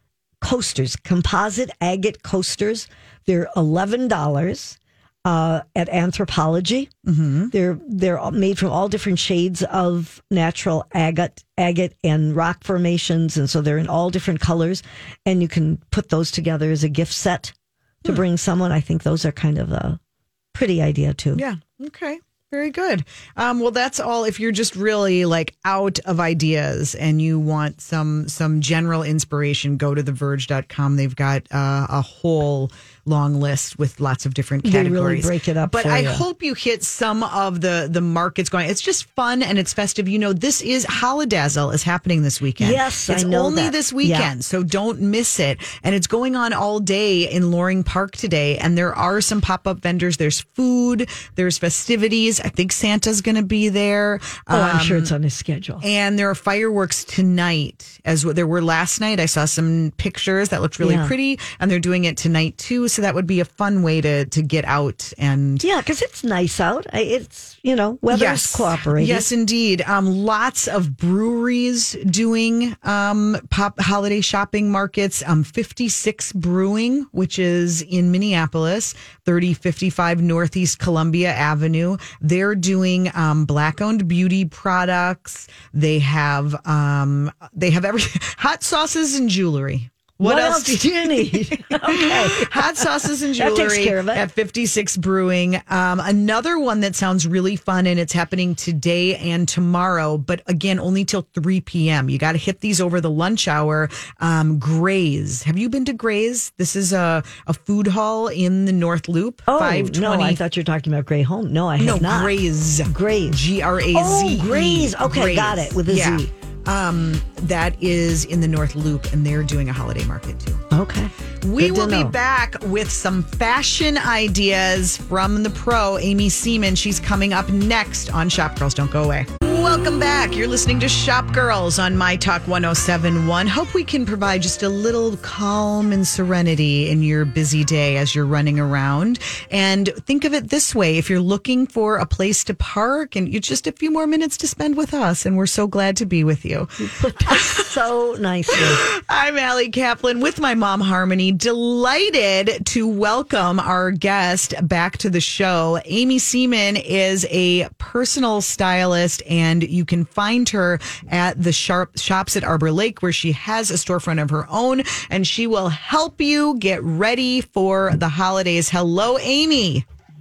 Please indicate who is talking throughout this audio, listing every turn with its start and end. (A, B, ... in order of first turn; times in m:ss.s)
0:00.4-0:06.9 A
0:07.1-0:07.5 B
0:07.5-0:20.0 A
0:20.5-0:21.4 A
0:21.4-0:55.1 B
0:34.6-0:36.2 A
0:42.6-0:44.3 A
0:54.5-0:55.8 A
0:55.8-1:05.6 B
1:00.8-1:01.1 A
1:05.6-1:09.3 A
1:08.1-1:50.4 B
1:30.2-1:34.2 A
1:49.5-1:53.4 A
1:51.8-2:00.6 B
1:53.9-1:56.3 A
2:00.7-2:02.2 A
2:01.4-2:27.7 B
2:26.8-2:28.8 A
2:28.5-2:49.8 B